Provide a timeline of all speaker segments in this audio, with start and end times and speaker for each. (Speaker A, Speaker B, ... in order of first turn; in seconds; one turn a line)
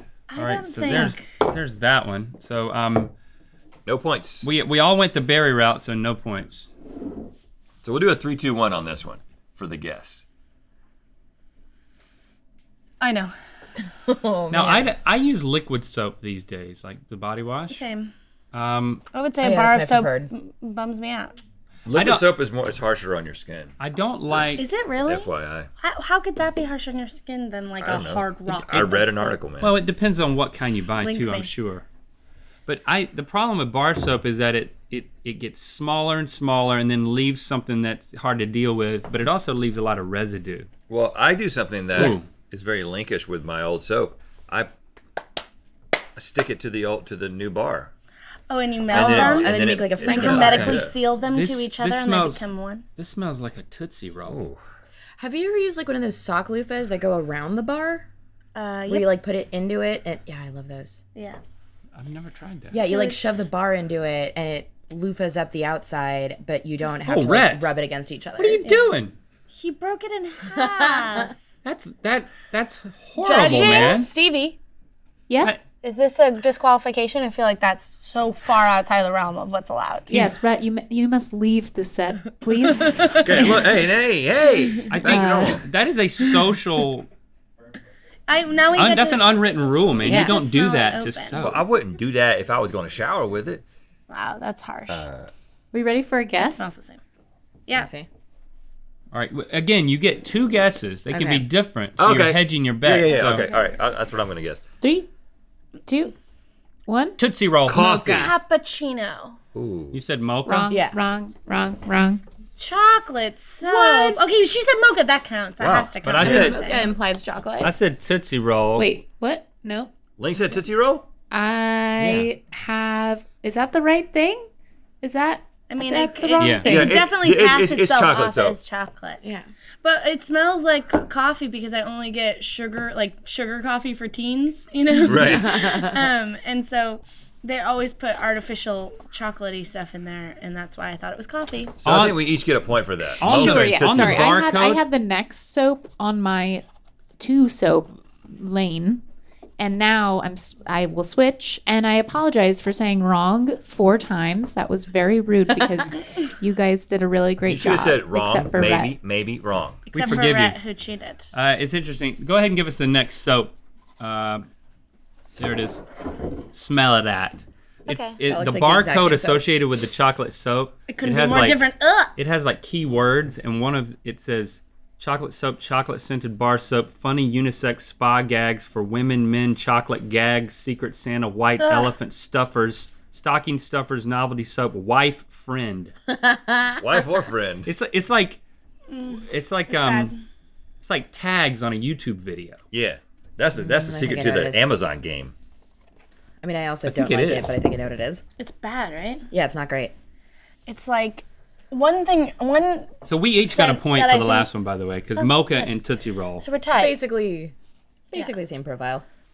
Speaker A: 0.3-1.2
Speaker B: 0.4-3.1
Speaker C: 3.9-4.5
Speaker B: 4.4-6.7
Speaker C: 7.8-10.2
Speaker A: 13.0-13.3
Speaker D: 14.1-14.9
Speaker B: 14.5-17.8
Speaker A: 17.7-18.1
Speaker B: 18.5-19.0
Speaker A: 19.1-21.4
Speaker D: 19.4-20.3
Speaker C: 21.9-23.7
Speaker B: 21.9-22.3
Speaker B: 23.8-24.6
Speaker C: 24.3-25.7
Speaker A: 24.6-29.4
Speaker C: 27.8-29.8
Speaker B: 29.6-31.8
Speaker A: 31.0-31.5
Speaker B: 32.6-40.7
Speaker C: 40.9-44.7
Speaker B: 41.9-42.3
Speaker C: 46.2-47.9
Speaker A: 48.5-52.8
Speaker C: 48.9-50.9
Speaker D: 48.9-50.8
Speaker B: 50.3-52.4
Speaker B: 53.0-54.4
Speaker C: 54.2-54.6
Speaker D: 55.2-58.1
Speaker A: 58.5-59.1
Speaker D: 58.9-61.0
Speaker B: 61.9-62.8
Speaker D: 62.7-68.7
Speaker A: 62.8-63.5
Speaker B: 67.0-67.7
Speaker B: 68.4-69.1
Speaker A: 68.6-68.9
Speaker A: 69.5-71.4
Speaker B: 71.6-74.1
Speaker A: 73.2-74.6
Speaker D: 73.3-74.0
Speaker E: 75.3-75.6
Speaker A: 75.7-80.3
Speaker E: 80.1-83.6
Speaker A: 82.8-83.5
Speaker C: 83.2-85.6
Speaker B: 84.9-87.1
Speaker E: 85.1-85.6
Speaker A: 88.3-89.3
Speaker B: 88.7-91.6
Speaker A: 90.0-91.5
Speaker D: 90.0-90.4
Speaker C: 91.4-93.6
Speaker A: 94.1-95.0
Speaker C: 94.9-95.3
Speaker E: 95.7-96.7
Speaker A: 96.4-97.0
Speaker D: 97.7-98.1
Speaker B: 99.1-103.3
Speaker D: 101.1-101.4
Speaker C: 102.0-104.6
Speaker A: 103.0-103.7
Speaker E: 104.8-105.1
Speaker E: 105.8-106.2
Speaker E: 106.9-107.2
Speaker B: 107.2-108.2
Speaker C: 107.7-108.3
Speaker D: 107.7-108.3
Speaker A: 108.1-109.4
Speaker C: 109.5-110.0
Speaker B: 109.9-110.7
Speaker E: 110.5-112.2
Speaker D: 110.7-111.0
Speaker A: 112.6-116.6
Speaker D: 113.6-114.3
Speaker C: 115.6-116.6
Speaker B: 116.0-116.6
Speaker D: 116.2-117.7
Speaker E: 116.4-116.9
Speaker B: 117.6-118.9
Speaker E: 118.7-119.9
Speaker C: 120.2-121.0
Speaker E: 121.3-124.5
Speaker B: 122.0-122.3
Speaker E: 125.0-127.0
Speaker A: 125.7-129.2
Speaker B: 126.4-126.7
Speaker C: 126.6-128.6
Speaker A: 129.8-141.8
Speaker C: 135.0-135.5
Speaker D: 135.2-135.9
Speaker C: 141.8-144.3
Speaker B: 141.8-142.2
Speaker B: 143.2-144.8
Speaker E: 143.3-146.6
Speaker E: 147.2-149.0
Speaker E: 149.6-158.9
Speaker C: 157.5-159.8
Speaker A: 159.9-161.3
Speaker B: 159.9-160.6
Speaker B: 161.3-164.4
Speaker B: 165.4-165.8
Speaker B: 166.5-171.6
Speaker A: 167.9-168.2
Speaker D: 168.2-169.4
Speaker A: 170.9-172.1
Speaker B: 172.2-185.9
Speaker A: 181.6-181.9
Speaker D: 186.1-186.6
Speaker C: 186.8-187.7
Speaker B: 187.7-188.4
Speaker A: 188.9-190.2
Speaker B: 189.2-190.1
Speaker B: 190.8-192.6
Speaker C: 192.7-195.3
Speaker D: 193.5-194.6
Speaker D: 196.4-198.2
Speaker B: 196.8-197.6
Speaker A: 198.4-199.3
Speaker D: 199.3-199.9
Speaker A: 200.7-202.9
Speaker B: 203.0-206.4
Speaker A: 203.4-204.5
Speaker A: 205.2-205.7
Speaker A: 206.4-206.9
Speaker D: 206.8-207.5
Speaker D: 208.1-209.0